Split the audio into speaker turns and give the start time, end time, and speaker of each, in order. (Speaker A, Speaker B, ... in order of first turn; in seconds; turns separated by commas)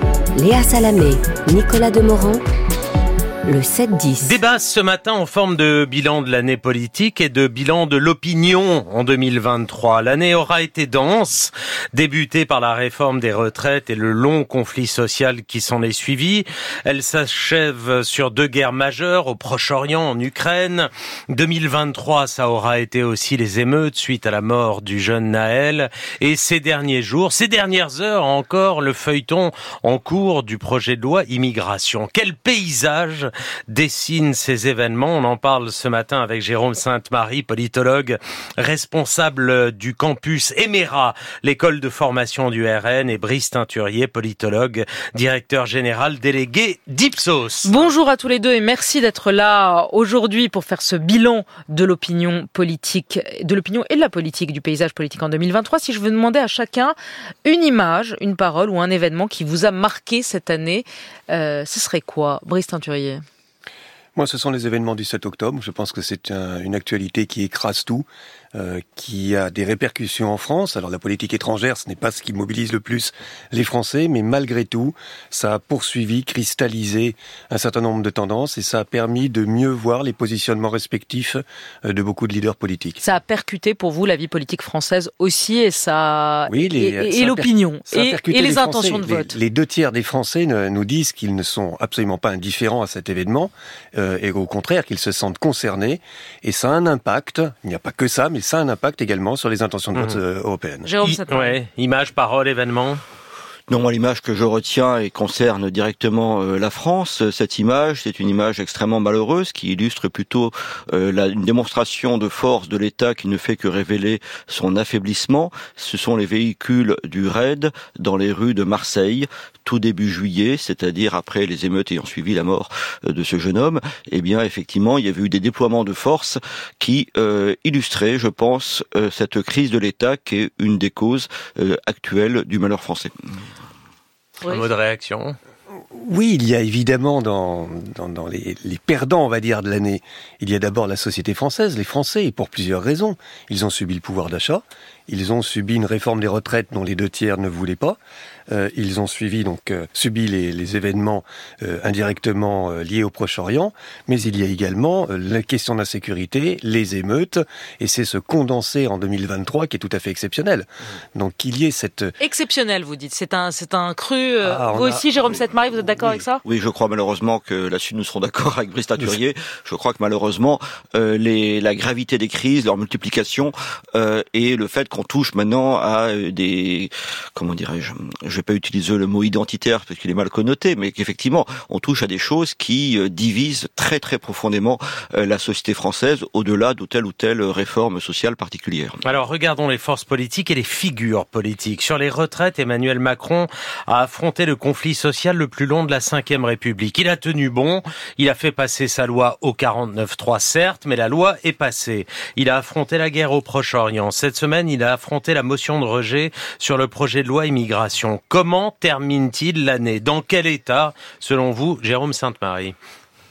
Speaker A: 0.3-2.4, Speaker A: 3.5-4.4, Speaker B: 4.2-47.9, Speaker C: 47.6-63.2, Speaker D: 64.2-83.0, Speaker C: 83.0-89.3, Speaker D: 86.5-100.9, Speaker C: 100.8-101.6, Speaker B: 101.0-103.0, Speaker E: 103.7-133.1, Speaker B: 134.4-135.3, Speaker D: 135.9-148.0, Speaker D: 148.5-162.1, Speaker C: 162.2-166.4, Speaker D: 164.4-165.3, Speaker D: 165.8-166.2, Speaker E: 166.4-189.1, Speaker B: 189.0-212.7